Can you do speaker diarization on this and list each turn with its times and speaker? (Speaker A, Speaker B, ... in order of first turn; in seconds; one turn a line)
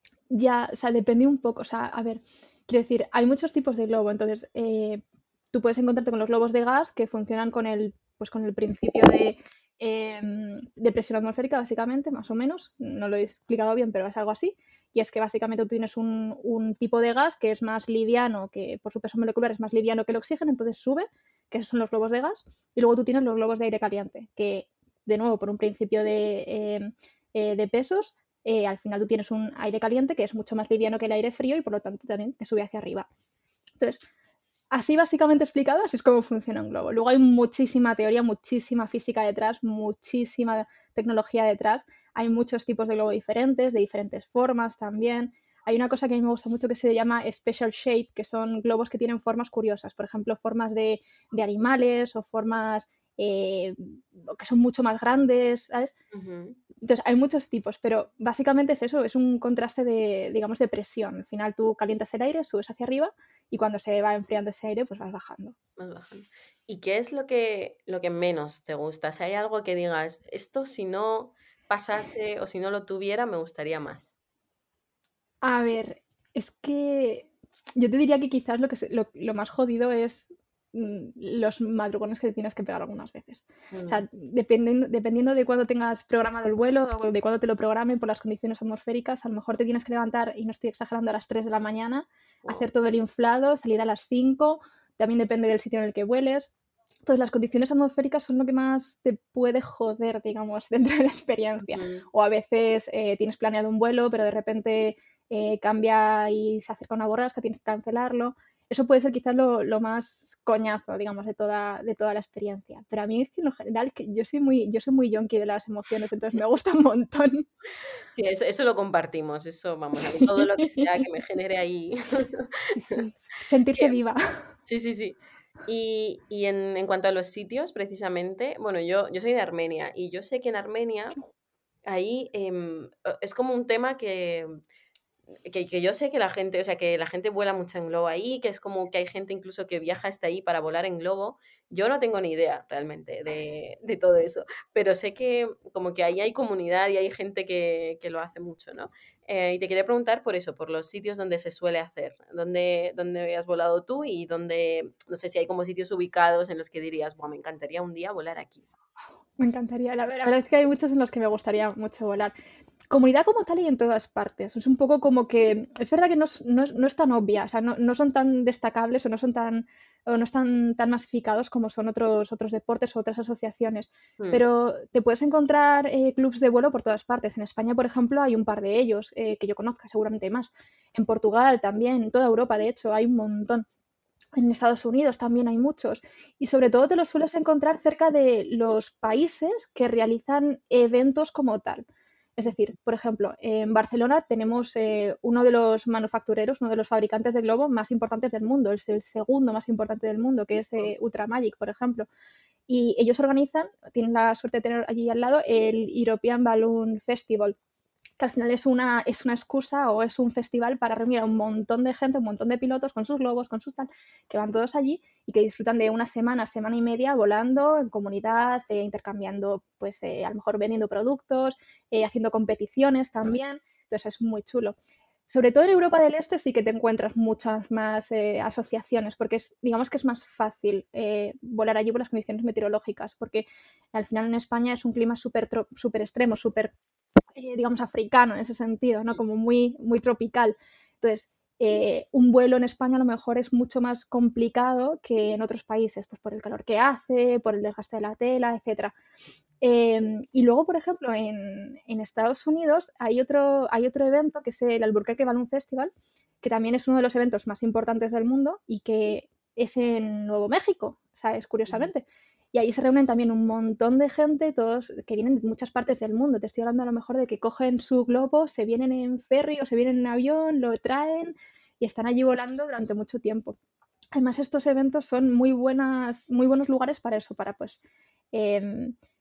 Speaker A: 0.3-5.0
Speaker A: 5.5-33.1
Speaker A: 33.8-34.1
Speaker A: 34.7-56.0
Speaker B: 56.1-56.6
Speaker A: 56.8-65.6
Speaker B: 65.8-74.2
Speaker A: 75.4-96.5
Speaker B: 83.7-84.0
Speaker A: 97.1-117.5
Speaker B: 101.7-102.1
Speaker B: 118.1-122.7
Speaker A: 120.2-120.9
Speaker A: 122.7-124.2
Speaker B: 124.7-131.2
Speaker B: 131.9-134.5
Speaker B: 135.5-158.7
Speaker A: 159.4-162.3
Speaker A: 162.9-183.7
Speaker A: 184.3-191.9
Speaker A: 192.4-202.1
Speaker A: 202.7-207.6
Speaker A: 208.2-224.8
Speaker A: 225.3-236.8
Speaker A: 237.4-248.9
Speaker A: 249.6-255.9
Speaker A: 256.4-273.6
Speaker A: 274.1-277.8
Speaker A: 278.3-279.0